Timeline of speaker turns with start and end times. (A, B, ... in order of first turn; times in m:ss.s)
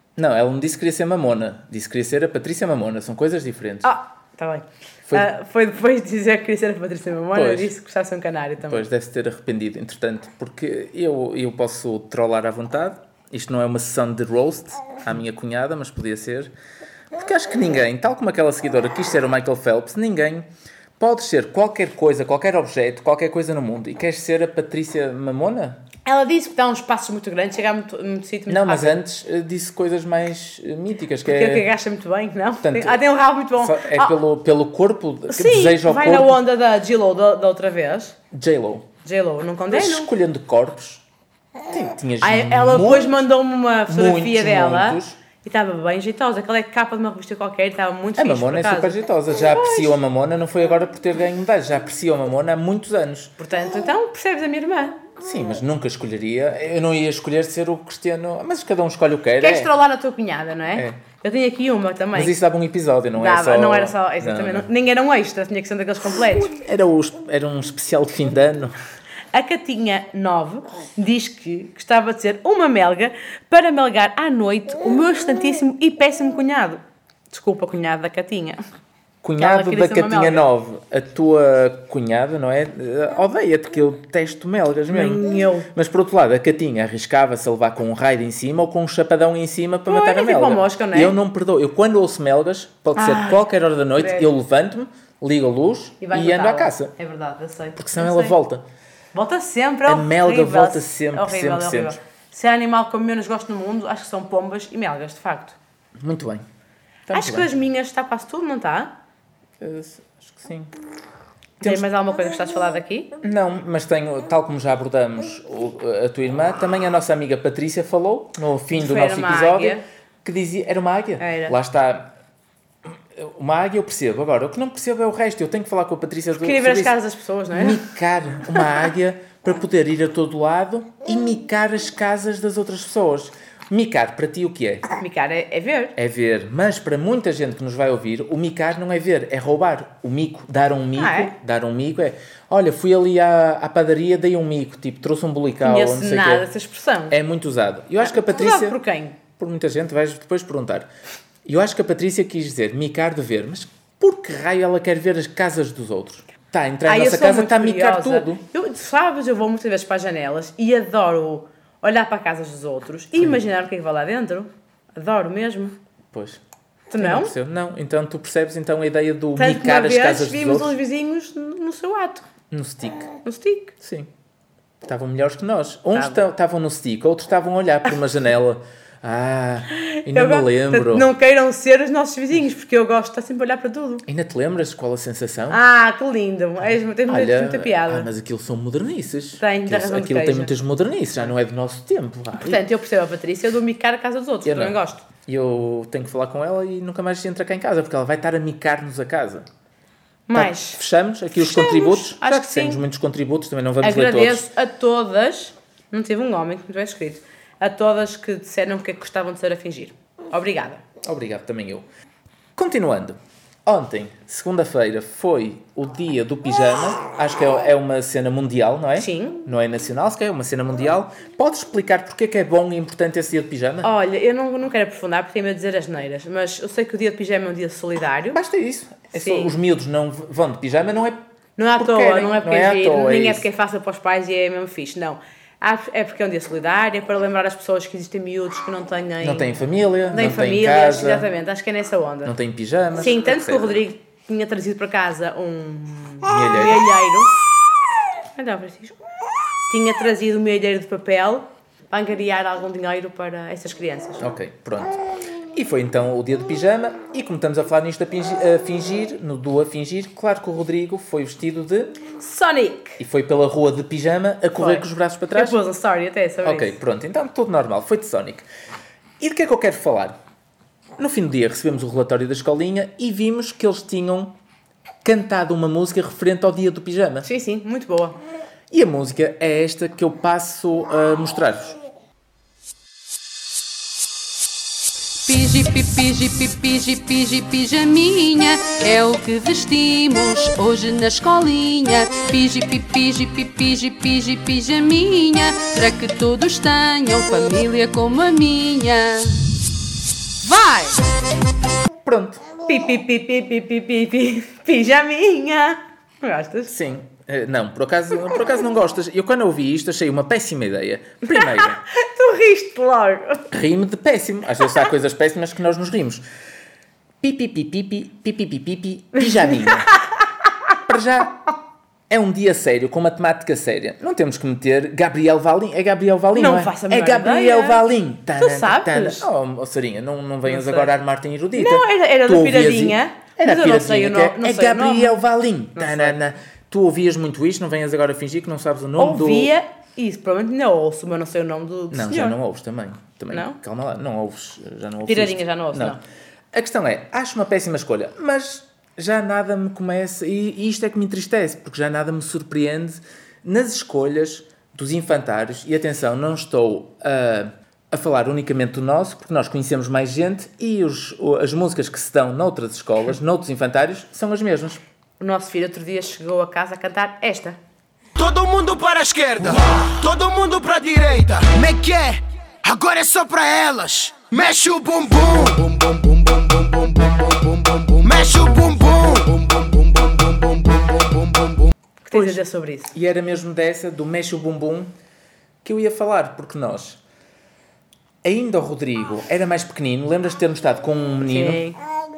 0:00.2-0:03.9 A
0:03.8-0:08.8 B
0:07.3-0:07.7 A
0:08.6-0:16.5 A
0:17.1-0:20.5 A
0:21.0-0:25.8 A
0:26.0-0:29.0 B
0:28.5-0:31.7 A
0:31.2-0:34.2 B
0:32.6-0:36.4 A
0:35.3-0:38.2 B
0:38.3-0:38.9 A
0:39.0-0:40.1 B
0:39.7-0:41.0 A
0:41.6-0:43.3 A
0:42.2-0:49.9 B
0:43.9-0:45.2 A
0:48.2-0:53.3 A
0:53.4-0:55.0 B
0:55.2-0:59.7 A
0:59.4-1:02.4 B
1:00.7-1:01.0 A
1:02.1-1:04.7 A
1:03.2-1:06.6 B
1:06.2-1:08.8 A
1:09.3-1:18.6 B
1:19.2-1:36.9 A
1:19.4-1:20.5 B
1:24.9-1:25.7 B
1:29.9-1:31.1 B
1:32.9-1:34.3 B
1:36.0-1:38.4 B
1:37.8-1:38.6 A
1:39.1-1:45.5 B
1:39.8-1:42.0 A
1:46.0-1:46.4 A
1:47.1-1:47.5 A
1:47.1-1:48.9 B
1:49.6-1:50.7 A
1:51.6-1:53.1 B
1:53.2-2:02.1 A
1:58.7-1:59.8 B
2:01.2-2:01.5 B
2:02.8-2:06.9 A
2:06.4-2:07.8 B
2:07.5-2:14.9 A
2:15.0-2:15.9 B
2:16.0-2:26.5 A
2:20.9-2:21.3 B
2:25.6-2:27.1 B
2:27.1-2:28.8 A
2:28.0-2:29.2 B
2:29.3-2:30.9 A
2:31.4-2:38.4 A
2:36.8-2:45.8 B
2:46.1-2:46.4 A
2:46.9-2:47.3 B
2:47.0-2:50.8 A
2:49.4-2:52.2 B
2:52.5-2:53.2 A
2:53.2-2:53.7 B
2:53.8-2:54.1 A
2:54.8-3:01.1 A
2:55.9-2:56.2 B
2:59.7-3:04.0 B
3:04.0-3:05.6 A
3:05.5-3:08.1 B
3:07.1-3:12.6 A
3:09.4-3:10.5 B
3:12.4-3:15.0 B
3:14.4-3:19.5 A
3:20.3-3:20.8 B
3:20.3-3:24.5 A
3:21.4-3:22.8 B
3:23.8-3:30.8 B
3:31.0-3:31.8 A
3:32.6-3:43.9 A
3:39.0-3:39.4 B
3:43.8-3:48.4 B
3:48.3-3:51.2 A
3:49.1-3:49.6 B
3:51.6-3:59.5 B
3:51.8-3:53.4 A
3:59.2-4:01.3 A
4:00.1-4:02.3 B
4:02.2-4:03.8 A
4:03.0-4:07.3 B
4:06.2-4:06.8 A
4:08.3-4:09.0 B
4:09.7-4:14.3 B
4:14.2-4:22.0 A
4:22.2-4:23.0 B
4:23.0-4:25.6 A
4:24.6-4:26.8 B
4:26.4-4:28.4 A
4:29.2-4:30.2 A
4:31.0-4:34.4 A
4:35.0-4:37.3 A
4:37.2-4:38.2 B
4:38.7-4:41.8 A
4:45.2-4:59.4 C
5:00.4-5:01.0 C
5:02.0-5:02.4 A
5:02.6-5:06.7 B
5:06.7-5:11.8 A
5:11.3-5:13.4 B
5:13.5-5:16.2 A
5:17.2-5:19.9 A
5:20.8-5:21.5 A
5:22.1-5:39.5 A
5:26.3-5:27.8 B
5:28.4-5:29.2 B
5:30.4-5:30.9 B
5:31.5-5:35.2 B
5:35.8-5:36.2 B
5:39.0-5:42.4 B
5:41.9-5:46.0 A
5:43.3-5:43.6 B
5:45.0-5:46.0 B
5:46.5-6:04.8 A
6:05.2-6:07.6 B
6:08.2-6:21.7 D
6:22.0-6:22.9 B
6:22.1-6:22.4 A
6:22.9-6:24.9 A
6:25.6-6:27.0 A
6:28.2-6:31.6 A
6:31.2-6:31.8 B